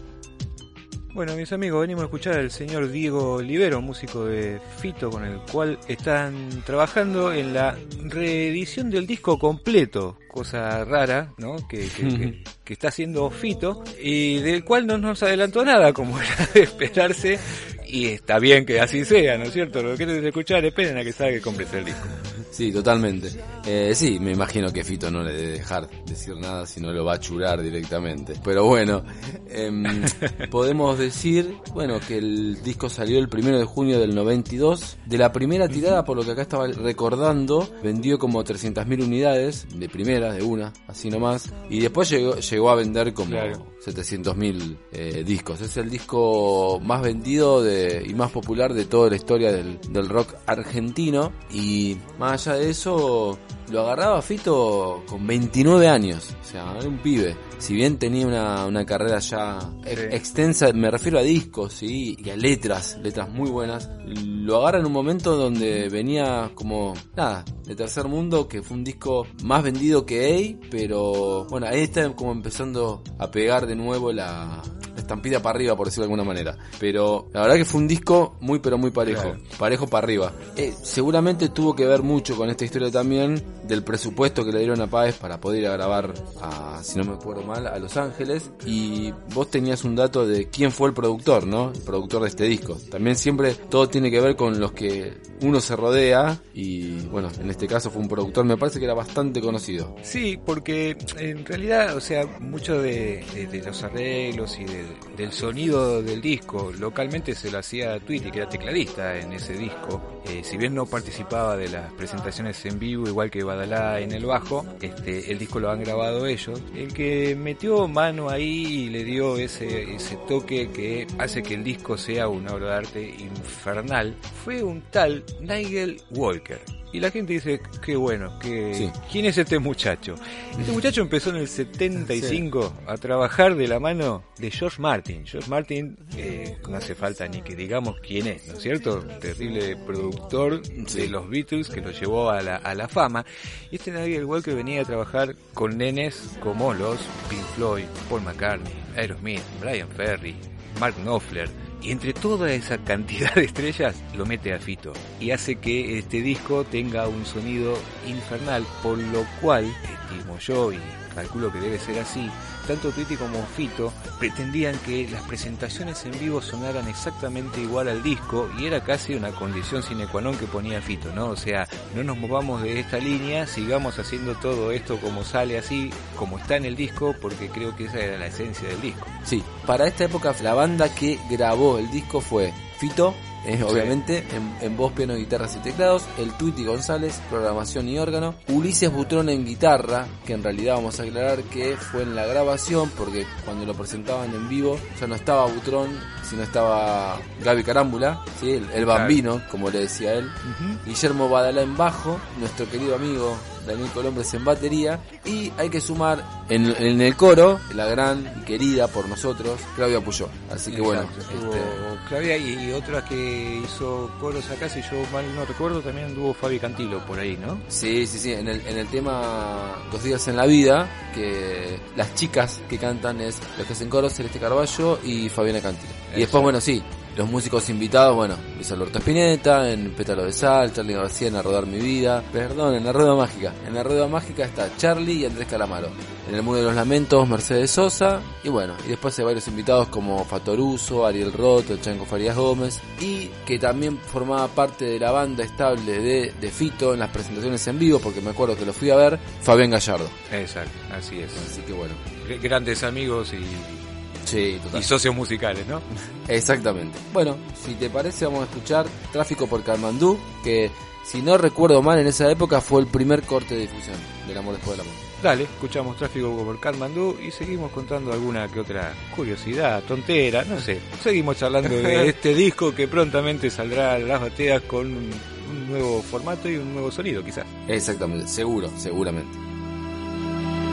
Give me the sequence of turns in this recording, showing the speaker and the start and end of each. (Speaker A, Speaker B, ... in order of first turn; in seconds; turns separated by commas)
Speaker A: 1.1-22.2, Speaker B: 12.0-12.3, Speaker B: 22.5-100.0, Speaker A: 43.3-43.6, Speaker A: 79.0-79.4, Speaker A: 100.0-179.1, Speaker B: 132.1-132.4, Speaker B: 140.7-141.1, Speaker B: 179.2-211.8, Speaker A: 183.7-183.9, Speaker A: 198.9-199.2, Speaker A: 200.4-200.8, Speaker A: 210.7-217.7, Speaker B: 217.7-250.2, Speaker A: 226.1-226.6, Speaker A: 250.3-251.5, Speaker B: 251.3-252.0, Speaker A: 252.2-254.0, Speaker B: 254.2-254.9, Speaker A: 254.7-255.9, Speaker B: 256.3-265.1, Speaker A: 265.2-277.5, Speaker B: 271.6-272.1, Speaker B: 277.7-279.4